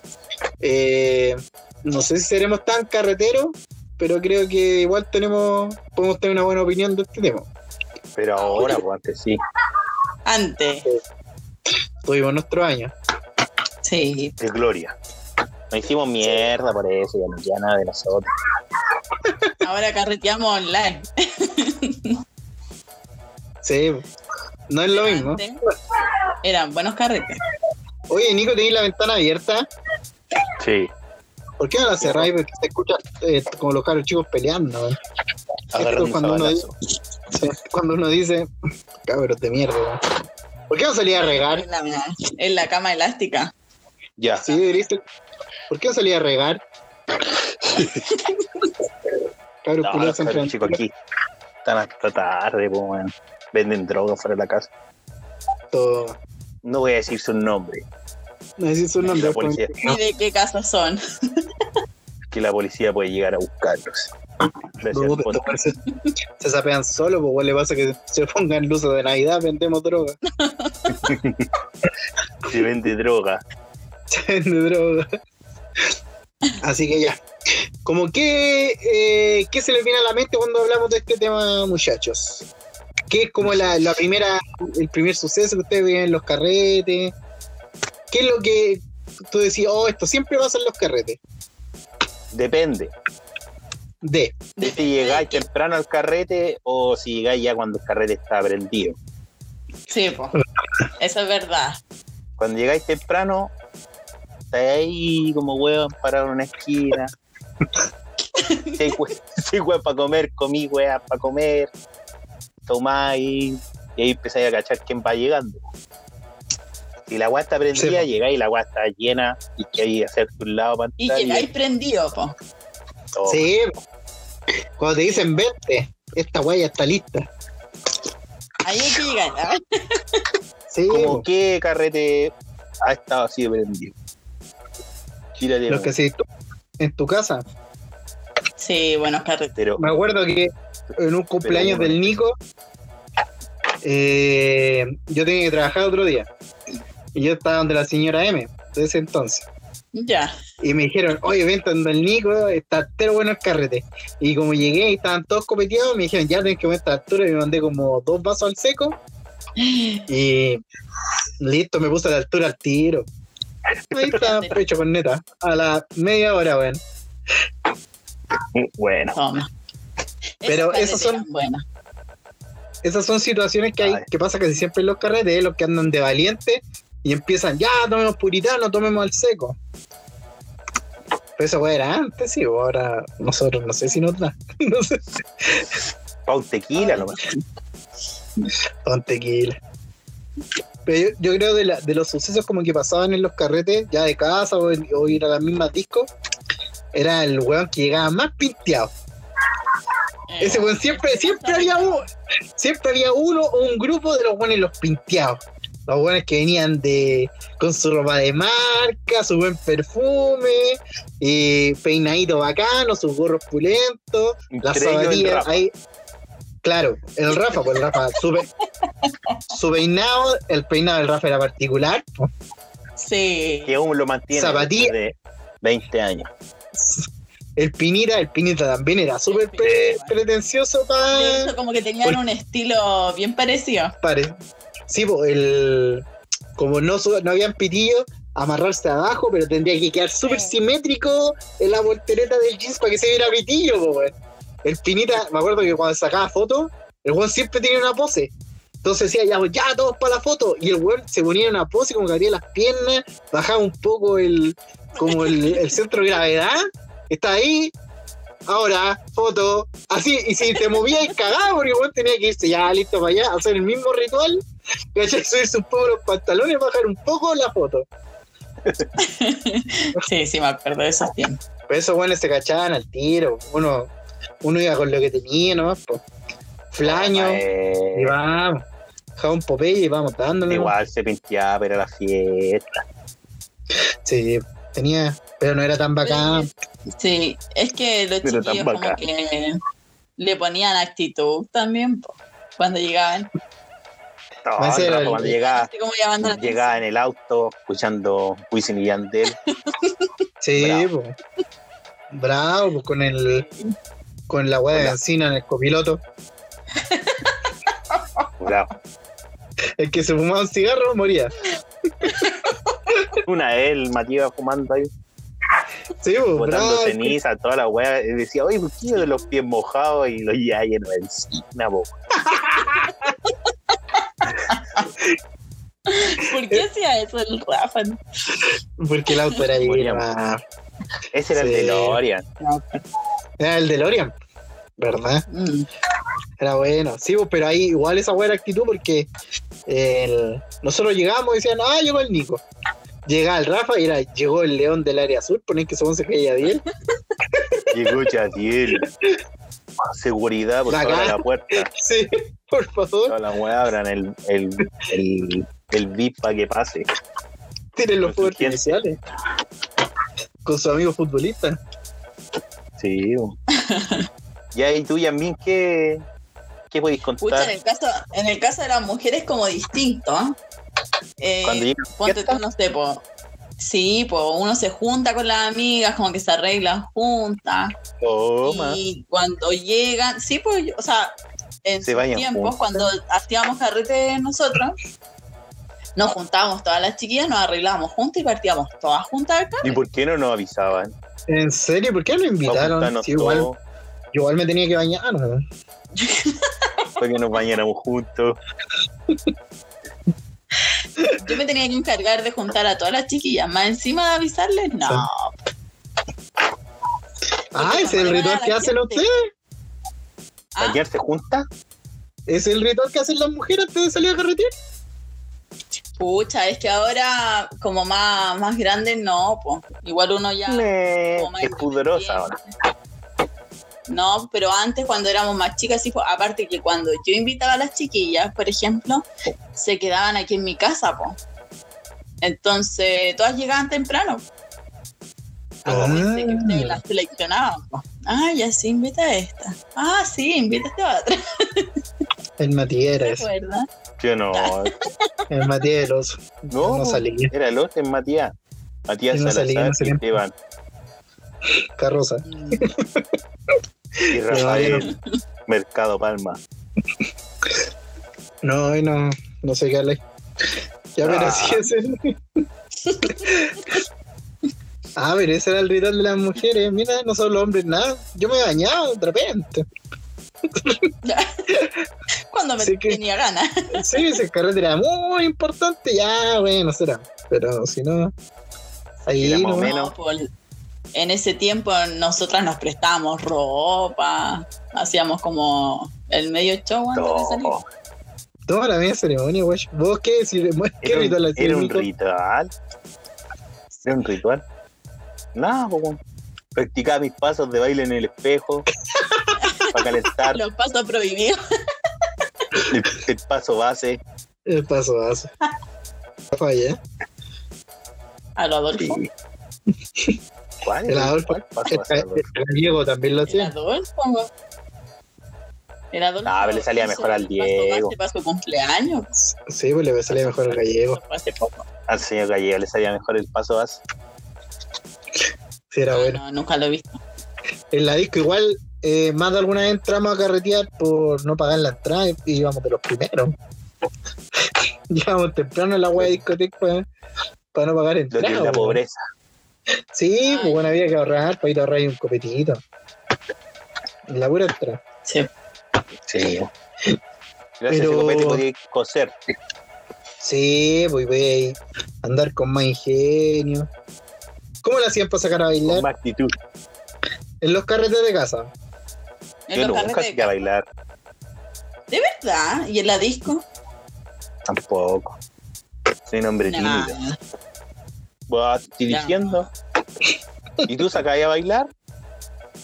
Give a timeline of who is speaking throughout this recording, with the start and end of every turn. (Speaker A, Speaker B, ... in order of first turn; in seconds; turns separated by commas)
Speaker A: 0.6-7.5, Speaker B: 8.2-9.4, Speaker C: 8.3-8.8, Speaker C: 10.2-10.9, Speaker A: 12.0-12.9, Speaker C: 13.8-14.3, Speaker B: 14.4-14.9, Speaker B: 15.7-18.3, Speaker C: 19.6-22.1, Speaker A: 23.6-24.0, Speaker A: 24.7-25.4, Speaker C: 24.9-25.6, Speaker C: 26.4-27.4, Speaker A: 28.1-29.7, Speaker B: 30.6-30.9, Speaker A: 31.6-35.0, Speaker B: 31.8-32.3, Speaker B: 35.7-36.7, Speaker A: 35.7-36.7, Speaker A: 37.3-38.5, Speaker A: 39.0-40.0, Speaker A: 40.7-41.6, Speaker C: 41.1-43.5, Speaker B: 44.2-44.4, Speaker C: 44.4-44.8, Speaker A: 44.4-45.0, Speaker A: 45.7-46.6, Speaker B: 47.6-48.0, Speaker C: 47.8-48.6, Speaker A: 49.6-50.8, Speaker B: 49.8-50.9, Speaker B: 51.6-54.7, Speaker A: 55.7-56.2, Speaker B: 56.6-57.8, Speaker A: 58.6-60.0, Speaker B: 59.0-59.7, Speaker C: 59.8-61.4, Speaker B: 62.3-64.1, Speaker B: 64.8-65.5, Speaker A: 64.9-65.8, Speaker A: 66.4-70.2, Speaker C: 70.4-71.1, Speaker B: 70.9-71.5, Speaker B: 72.5-73.4, Speaker A: 74.1-75.0, Speaker A: 76.6-77.2, Speaker A: 77.8-82.4, Speaker A: 83.1-87.1, Speaker A: 88.1-91.2, Speaker B: 92.3-92.9, Speaker A: 94.0-94.4, Speaker C: 94.6-95.5, Speaker B: 94.6-99.0, Speaker C: 99.9-100.4, Speaker C: 101.0-101.8, Speaker B: 102.4-103.5, Speaker B: 104.5-107.1, Speaker C: 108.3-108.9, Speaker B: 108.8-111.7, Speaker B: 112.7-115.6, Speaker B: 117.1-121.5, Speaker A: 117.7-118.0, Speaker C: 121.0-122.3, Speaker B: 123.2-123.5, Speaker A: 123.3-123.7, Speaker A: 124.8-127.3, Speaker C: 128.6-130.2, Speaker A: 130.7-131.2, Speaker B: 130.9-133.9, Speaker B: 135.4-135.9, Speaker A: 135.7-136.2, Speaker A: 136.8-137.4, Speaker C: 138.6-139.5, Speaker B: 139.6-139.8, Speaker A: 139.8-142.3, Speaker B: 141.4-142.1, Speaker A: 143.8-146.3, Speaker A: 147.1-149.4, Speaker C: 149.9-150.3, Speaker A: 150.6-159.0, Speaker C: 159.6-160.1, Speaker A: 160.1-160.6, Speaker A: 161.4-163.1, Speaker A: 163.9-166.8, Speaker C: 164.0-164.6, Speaker B: 168.5-169.2, Speaker C: 169.1-169.5, Speaker C: 170.4-171.6, Speaker A: 170.4-171.2, Speaker A: 172.8-179.6, Speaker B: 173.8-174.0, Speaker A: 181.4-185.7, Speaker B: 186.3-187.2, Speaker C: 186.8-187.4, Speaker A: 188.8-189.6, Speaker A: 190.8-196.1, Speaker A: 196.9-198.9, Speaker C: 200.3-202.1, Speaker A: 200.4-215.7, Speaker B: 214.5-215.6, Speaker A: 216.6-218.5, Speaker C: 217.7-218.2, Speaker C: 219.0-219.4, Speaker A: 219.5-222.3, Speaker C: 223.0-223.8, Speaker B: 223.7-226.3, Speaker A: 224.3-224.9, Speaker A: 226.8-227.1, Speaker A: 227.6-231.5, Speaker C: 229.3-230.1, Speaker B: 229.6-230.0, Speaker C: 231.1-233.9, Speaker A: 234.0-234.3, Speaker A: 234.9-236.1, Speaker A: 236.6-257.7, Speaker C: 240.2-240.5, Speaker C: 255.0-255.7, Speaker A: 258.5-267.9, Speaker C: 269.0-271.4, Speaker A: 271.7-276.0, Speaker A: 276.7-277.4, Speaker B: 276.8-278.1, Speaker A: 277.9-278.6, Speaker A: 279.2-280.7, Speaker B: 280.5-282.8, Speaker A: 284.0-286.5, Speaker C: 286.0-289.6, Speaker B: 288.2-289.0, Speaker C: 290.2-293.3, Speaker B: 294.4-295.7, Speaker A: 294.6-295.4, Speaker C: 295.2-296.8, Speaker B: 296.2-299.3, Speaker C: 299.5-300.1, Speaker A: 300.4-301.1, Speaker B: 300.6-300.9, Speaker A: 302.1-303.4, Speaker C: 303.2-303.7, Speaker A: 304.3-306.0, Speaker C: 306.8-308.3, Speaker B: 308.4-308.7, Speaker A: 309.8-311.3, Speaker C: 312.0-312.7, Speaker B: 313.2-314.9, Speaker A: 316.0-317.1, Speaker B: 316.4-321.9, Speaker C: 324.0-324.8, Speaker C: 325.9-328.0, Speaker A: 328.8-330.4, Speaker C: 329.1-329.4, Speaker B: 329.6-330.0, Speaker B: 331.1-332.2, Speaker A: 331.3-332.0, Speaker C: 332.4-332.8, Speaker A: 333.4-334.1, Speaker A: 334.8-335.2, Speaker C: 335.3-335.7, Speaker A: 336.4-339.1, Speaker A: 339.6-342.4, Speaker A: 343.1-346.6, Speaker B: 347.7-348.9, Speaker A: 348.8-349.2, Speaker B: 349.9-351.7, Speaker A: 350.7-353.1, Speaker B: 353.1-356.9, Speaker A: 357.7-359.0, Speaker B: 358.0-358.8, Speaker A: 360.4-361.6, Speaker B: 362.8-363.3, Speaker C: 363.5-364.1, Speaker B: 364.5-366.0, Speaker B: 366.7-367.5, Speaker C: 367.2-370.4, Speaker C: 371.2-373.0, Speaker B: 371.4-372.4, Speaker C: 373.6-377.7, Speaker B: 378.0-378.8, Speaker C: 378.4-384.8, Speaker B: 381.8-382.6, Speaker C: 385.9-389.8, Speaker B: 389.6-390.9, Speaker A: 391.3-393.5, Speaker B: 392.4-393.6, Speaker A: 394.1-395.4, Speaker C: 396.0-396.9, Speaker B: 397.0-398.4, Speaker C: 401.2-405.4, Speaker A: 407.5-409.3, Speaker C: 407.6-409.1, Speaker B: 410.6-411.4, Speaker A: 412.3-414.5, Speaker C: 416.0-422.3, Speaker B: 420.5-422.4, Speaker C: 423.9-431.2, Speaker C: 432.2-434.2, Speaker A: 435.6-436.8, Speaker B: 435.6-436.0, Speaker C: 435.7-441.7, Speaker A: 442.4-443.2, Speaker C: 443.0-443.7, Speaker B: 444.0-444.7, Speaker C: 444.3-444.7, Speaker A: 445.3-447.3, Speaker B: 446.5-448.3, Speaker B: 448.9-450.3, Speaker A: 449.1-450.2, Speaker A: 451.8-453.0, Speaker C: 452.2-452.7, Speaker A: 454.0-454.9, Speaker B: 454.1-454.9, Speaker C: 454.7-454.9, Speaker B: 455.5-456.4, Speaker A: 458.4-460.0, Speaker A: 460.9-462.2, Speaker B: 461.0-461.6, Speaker C: 462.8-463.3, Speaker A: 463.1-463.7, Speaker A: 464.9-469.6, Speaker A: 470.5-470.9, Speaker C: 471.0-471.5, Speaker A: 471.5-471.8, Speaker C: 472.3-474.1, Speaker A: 472.6-473.0, Speaker A: 473.7-478.1, Speaker C: 479.1-480.3, Speaker A: 479.1-479.7, Speaker B: 479.2-479.9, Speaker C: 480.9-487.5, Speaker B: 486.9-487.6, Speaker A: 488.5-491.9, Speaker B: 490.8-492.5, Speaker B: 493.8-494.4, Speaker B: 495.3-496.0, Speaker B: 496.5-498.7, Speaker A: 498.9-499.3, Speaker C: 499.3-501.4, Speaker B: 499.7-500.4, Speaker B: 502.7-504.0, Speaker A: 504.4-505.3, Speaker A: 506.3-506.8, Speaker C: 508.4-509.0, Speaker B: 508.8-509.1, Speaker B: 510.6-512.3, Speaker A: 510.9-513.5, Speaker C: 513.3-514.3, Speaker C: 515.9-519.1, Speaker B: 516.2-517.9, Speaker A: 519.4-521.0, Speaker C: 520.6-521.6, Speaker B: 521.9-523.8, Speaker A: 525.7-526.2, Speaker C: 525.9-527.0, Speaker A: 527.7-533.4, Speaker A: 534.5-536.9, Speaker A: 537.5-538.8, Speaker B: 538.1-539.0, Speaker A: 539.9-542.6, Speaker C: 540.2-540.7, Speaker A: 544.1-544.8, Speaker B: 546.1-546.5, Speaker B: 547.6-549.1, Speaker A: 547.7-548.4, Speaker A: 550.2-553.7, Speaker A: 554.6-555.9, Speaker B: 555.6-556.3, Speaker A: 557.4-558.5, Speaker C: 559.5-560.3, Speaker B: 559.5-560.6, Speaker C: 561.9-563.4, Speaker B: 564.5-565.1, Speaker B: 566.1-567.0, Speaker C: 566.4-567.2, Speaker B: 568.3-569.5, Speaker C: 568.9-569.5, Speaker A: 570.6-571.0, Speaker B: 570.7-571.7